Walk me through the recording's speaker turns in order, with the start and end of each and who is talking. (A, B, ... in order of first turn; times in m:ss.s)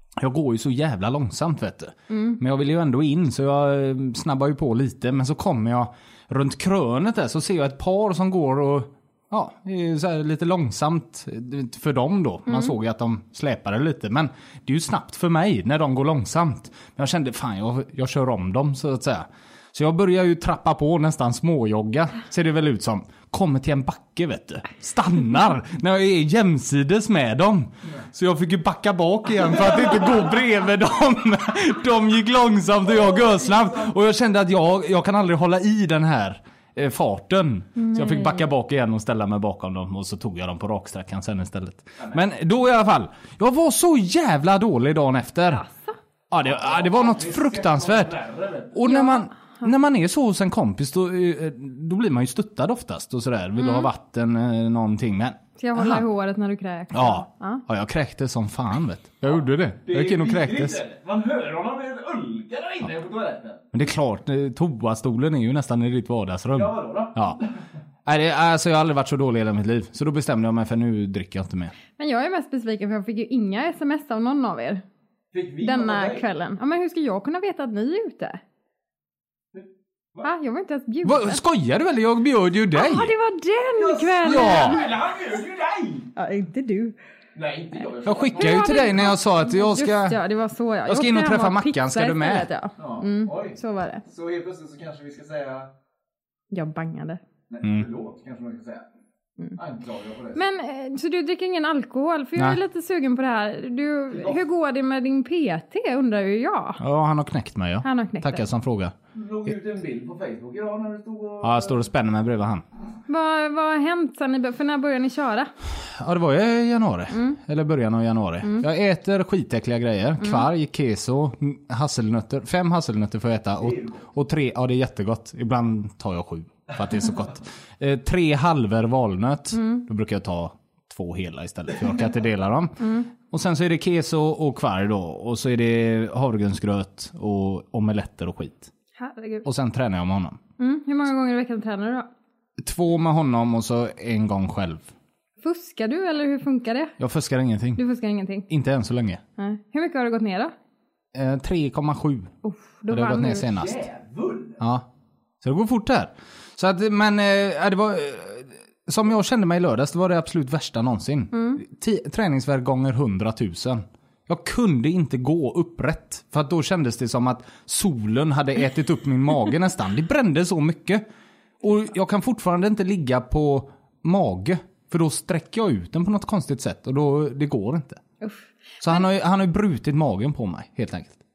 0:00.2-0:45.6 A
0:02.1-0:02.4 B
0:12.5-0:12.7 B
0:33.1-0:33.8 C
0:37.8-0:38.3 B
0:45.5-0:46.0 B
0:46.3-0:48.2 A
0:46.4-0:48.8 C
0:48.7-0:56.0 A
0:48.8-0:49.6 B
0:53.6-0:53.9 B
0:55.6-0:57.6 B
0:56.9-1:00.8 A
0:59.8-1:03.6 C
1:03.7-1:07.4 A
1:06.5-1:07.6 C
1:08.0-1:11.7 A
1:12.0-1:14.8 B
1:15.3-1:16.3 C
1:15.6-1:18.4 B
1:19.5-1:20.3 C
1:20.2-1:21.4 B
1:21.0-1:23.1 A
1:22.7-1:24.9 B
1:23.8-1:26.1 C
1:24.2-1:24.8 A
1:26.2-1:27.0 B
1:27.4-1:28.7 C
1:28.1-1:30.2 A
1:28.3-1:34.0 B
1:30.9-1:32.5 A
1:32.8-1:35.7 C
1:36.5-1:37.2 B
1:37.5-1:38.9 C
1:39.6-1:40.4 C
1:40.4-1:46.8 B
1:44.1-1:44.4 C
1:46.8-1:48.9 A
1:47.8-1:48.4 B
1:49.1-1:51.8 C
1:51.4-1:52.6 A
1:53.1-1:55.5 B
1:55.8-2:18.7 A
1:57.1-1:57.4 B
2:03.6-2:04.0 C
2:09.6-2:09.8 B
2:12.8-2:13.1 B
2:19.0-2:19.4 B
2:19.4-2:20.4 A
2:20.6-2:22.1 B
2:22.6-2:24.9 A
2:25.4-2:27.0 B
2:27.0-2:27.8 A
2:27.8-2:28.5 B
2:28.5-2:29.2 A
2:29.4-2:30.5 B
2:31.1-2:32.3 A
2:32.4-2:33.5 B
2:32.9-2:33.8 A
2:33.5-2:34.6 C
2:34.6-2:34.9 A
2:35.4-2:51.0 A
2:41.3-2:41.6 B
2:51.6-2:58.0 A
2:58.2-2:59.1 B
2:58.8-3:01.2 A